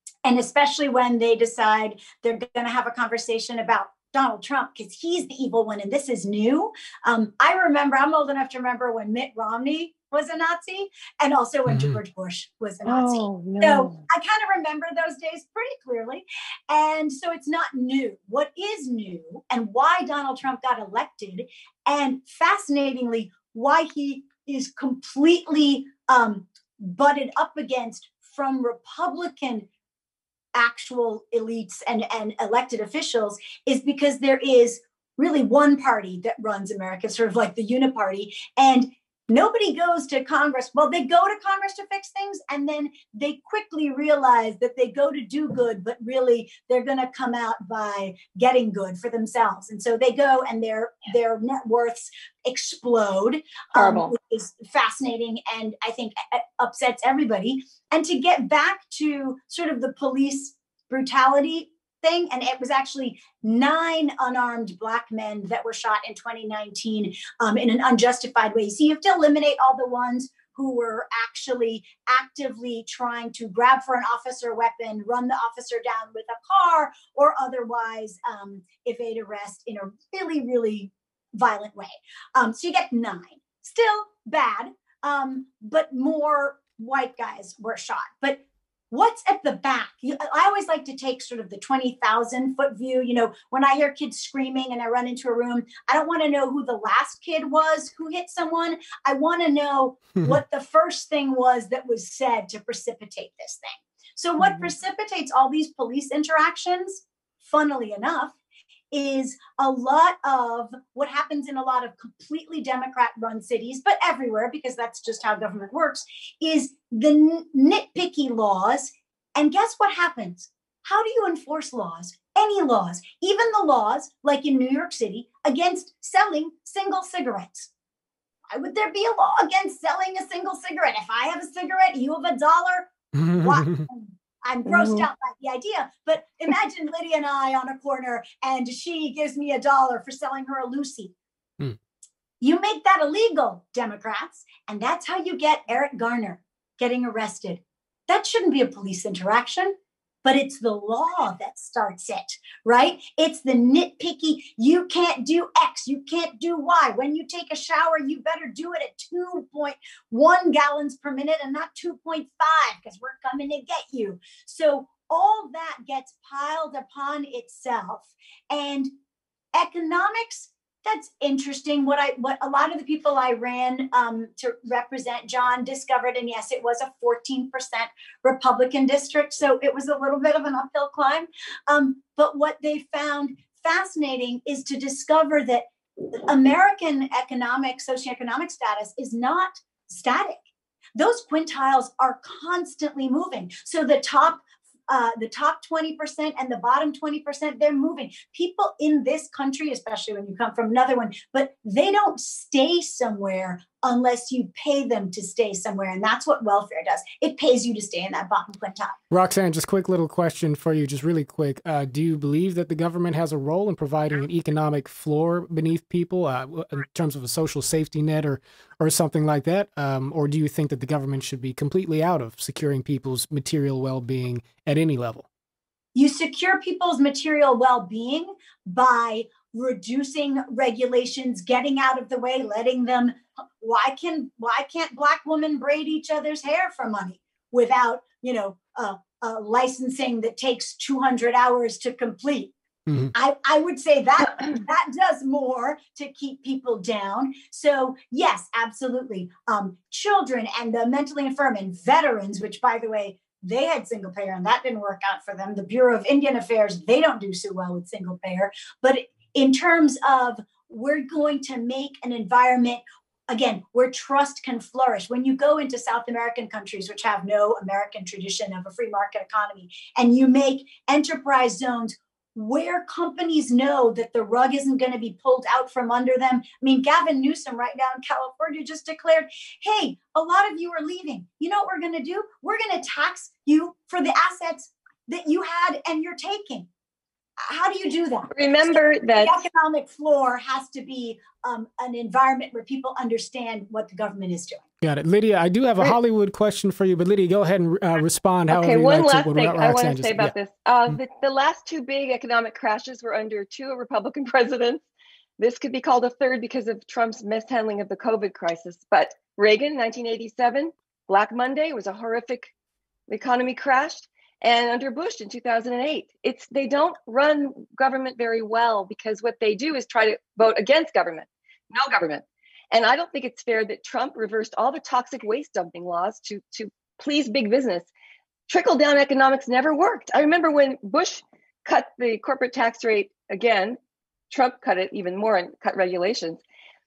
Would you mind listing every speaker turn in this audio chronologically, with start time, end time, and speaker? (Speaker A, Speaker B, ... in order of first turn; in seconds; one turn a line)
Speaker A: 0.2-29.7
Speaker B: 11.7-12.0
Speaker C: 12.8-14.0
Speaker A: 30.6-108.4
Speaker C: 53.8-54.1
Speaker A: 108.9-127.7
Speaker A: 128.5-141.1
Speaker B: 133.1-133.9
Speaker C: 134.7-135.1
Speaker A: 142.4-168.9
Speaker A: 169.6-190.4
Speaker A: 191.0-209.0
Speaker B: 209.1-225.3
Speaker A: 225.9-242.5
Speaker B: 242.9-243.1
Speaker A: 243.1-286.7
Speaker A: 287.4-294.6
Speaker C: 288.3-289.4
Speaker B: 294.8-300.3
Speaker C: 298.5-304.8
Speaker C: 305.4-312.5
Speaker C: 313.1-327.9
Speaker C: 328.5-333.8
Speaker C: 334.3-336.4